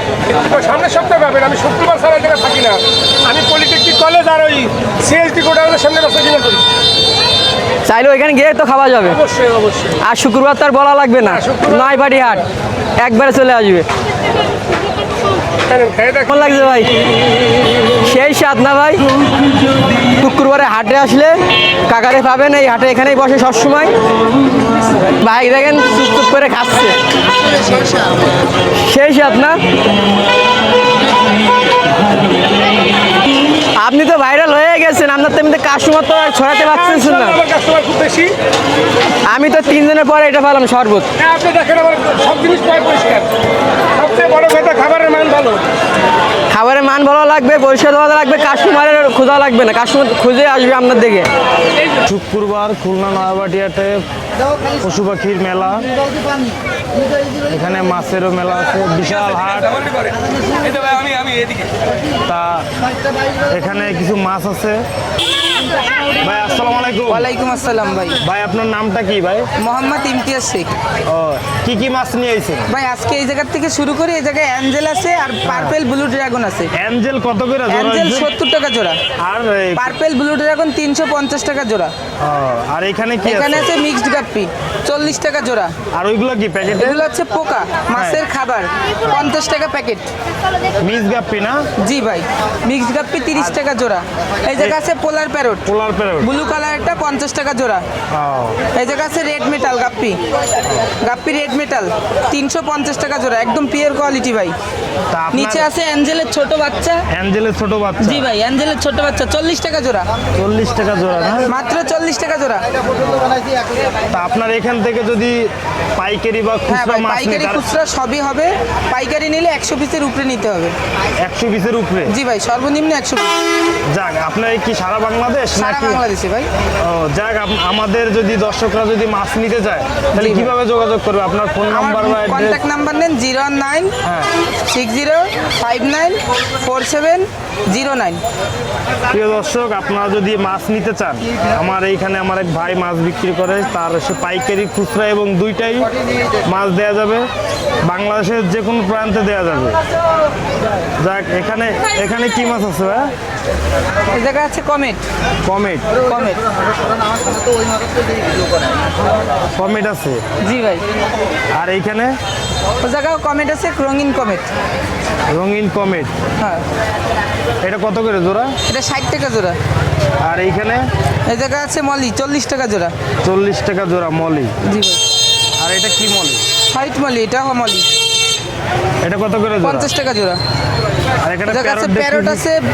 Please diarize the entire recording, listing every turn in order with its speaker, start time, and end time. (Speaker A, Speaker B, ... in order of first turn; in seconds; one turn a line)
Speaker A: 0.4-6.6
Speaker B: 7.8-9.2
Speaker A: 9.3-9.9
Speaker B: 10.0-12.4
Speaker B: 13.0-13.9
Speaker A: 15.7-16.2
Speaker B: 16.3-16.9
Speaker B: 18.0-19.1
Speaker B: 20.2-23.9
Speaker B: 25.2-27.0
Speaker B: 28.8-29.6
Speaker B: 33.8-37.4
Speaker A: 37.0-38.3
Speaker B: 39.3-41.1
Speaker A: 41.2-43.3
Speaker A: 44.0-45.6
Speaker B: 46.5-51.3
Speaker C: 52.1-54.0
Speaker C: 54.8-55.9
Speaker C: 57.5-59.8
Speaker C: 62.3-62.7
Speaker C: 63.5-64.8
Speaker C: 66.2-67.3
Speaker D: 67.1-68.2
Speaker C: 68.2-69.5
Speaker D: 69.6-70.7
Speaker C: 71.1-72.7
Speaker D: 72.7-76.7
Speaker C: 75.5-75.8
Speaker C: 76.8-78.3
Speaker D: 77.7-79.0
Speaker C: 79.2-80.0
Speaker D: 79.8-81.9
Speaker C: 82.2-83.7
Speaker D: 83.2-85.7
Speaker C: 85.9-87.0
Speaker D: 86.8-90.1
Speaker C: 87.9-88.2
Speaker C: 89.1-89.4
Speaker C: 90.8-91.6
Speaker D: 91.8-95.7
Speaker C: 95.7-96.3
Speaker D: 96.2-97.8
Speaker C: 98.1-98.6
Speaker D: 98.7-100.2
Speaker D: 101.0-104.5
Speaker C: 105.1-105.7
Speaker D: 105.3-107.0
Speaker C: 107.1-108.3
Speaker D: 108.0-110.1
Speaker C: 110.3-111.5
Speaker D: 111.5-112.7
Speaker C: 114.1-117.6
Speaker D: 116.7-120.7
Speaker C: 121.2-122.2
Speaker D: 122.1-123.4
Speaker C: 123.9-126.0
Speaker D: 125.6-126.5
Speaker C: 126.8-132.6
Speaker D: 130.2-130.5
Speaker D: 131.7-133.9
Speaker C: 134.0-134.3
Speaker D: 134.7-138.2
Speaker C: 139.1-145.9
Speaker C: 146.5-147.3
Speaker C: 147.8-149.8
Speaker C: 151.0-153.1
Speaker D: 154.1-155.0
Speaker C: 155.4-156.0
Speaker D: 156.0-156.4
Speaker C: 159.6-160.2
Speaker D: 160.4-160.8
Speaker C: 161.6-162.2
Speaker D: 162.8-164.5
Speaker C: 165.3-166.1
Speaker C: 167.6-168.5
Speaker D: 168.7-169.6
Speaker C: 170.2-170.8
Speaker D: 171.3-172.9
Speaker C: 173.2-174.5
Speaker D: 174.7-175.0
Speaker C: 175.6-176.4
Speaker D: 176.7-177.9
Speaker C: 179.0-179.9
Speaker D: 179.6-180.4
Speaker C: 181.2-182.5
Speaker D: 181.5-182.6